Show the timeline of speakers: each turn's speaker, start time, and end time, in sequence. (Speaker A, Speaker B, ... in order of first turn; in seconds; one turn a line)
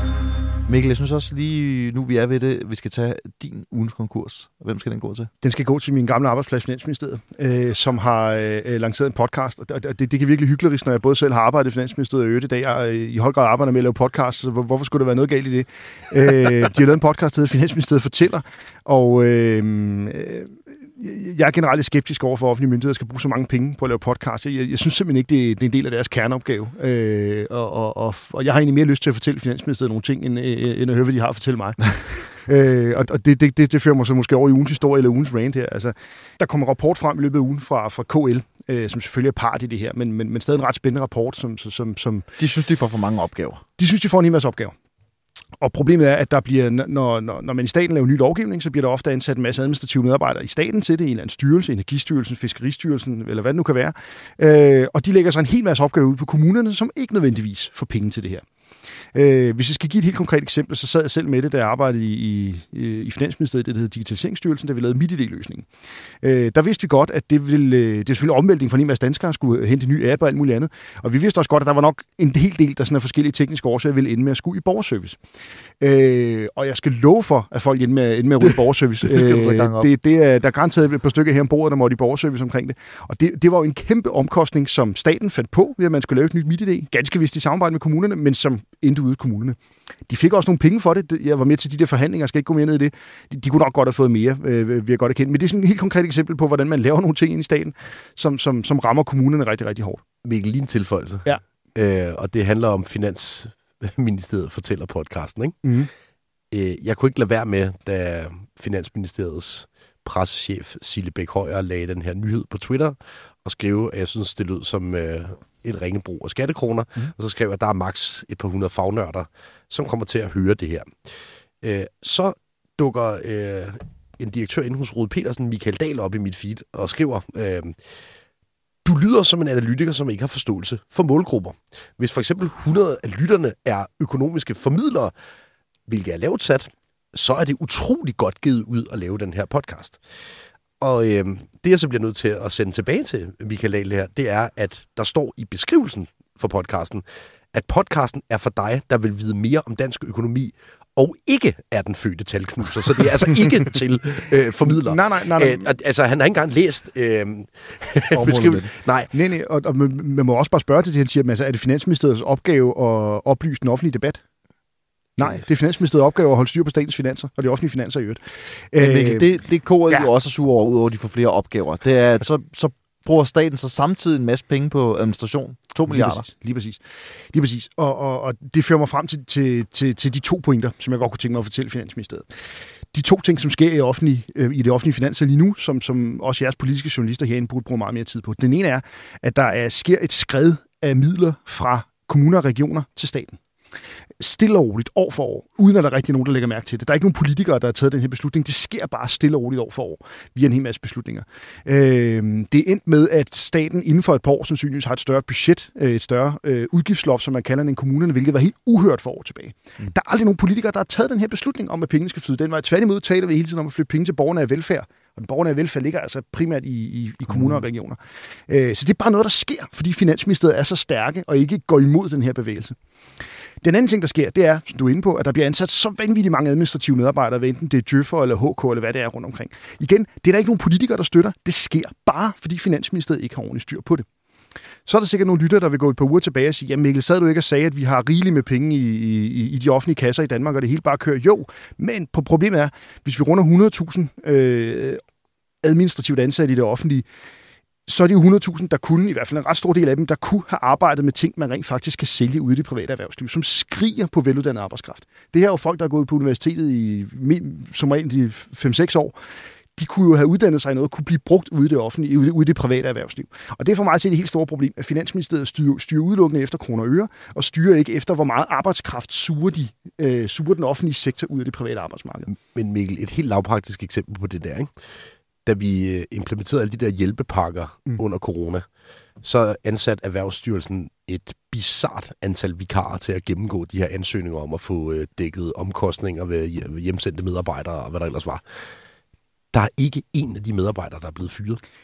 Speaker A: 0.7-5.3
Speaker B: 5.4-42.3
Speaker A: 42.4-43.6
Speaker B: 43.8-44.7
Speaker B: 45.6-58.4
Speaker B: 59.1-65.7
Speaker B: 66.2-75.2
Speaker B: 75.8-89.6
Speaker A: 79.0-79.9
Speaker B: 90.1-100.0
Speaker C: 100.2-105.6
Speaker B: 105.6-105.9
Speaker C: 106.5-127.8
Speaker C: 128.8-135.1
Speaker C: 135.9-159.1
Speaker B: 154.6-155.7
Speaker A: 158.1-158.7
Speaker B: 159.1-164.2
Speaker B: 165.2-168.2
Speaker B: 168.7-169.3
Speaker A: 168.8-176.2
Speaker B: 175.9-176.8
Speaker B: 177.3-182.3
Speaker B: 182.9-193.4
Speaker B: 194.2-218.0
Speaker B: 218.5-222.8
Speaker B: 223.6-234.1
Speaker B: 234.8-245.0
Speaker B: 245.6-247.0
Speaker B: 247.9-259.1
Speaker B: 259.8-272.3
Speaker C: 272.3-274.7
Speaker C: 275.4-278.6
Speaker C: 279.2-288.6
Speaker C: 289.5-291.6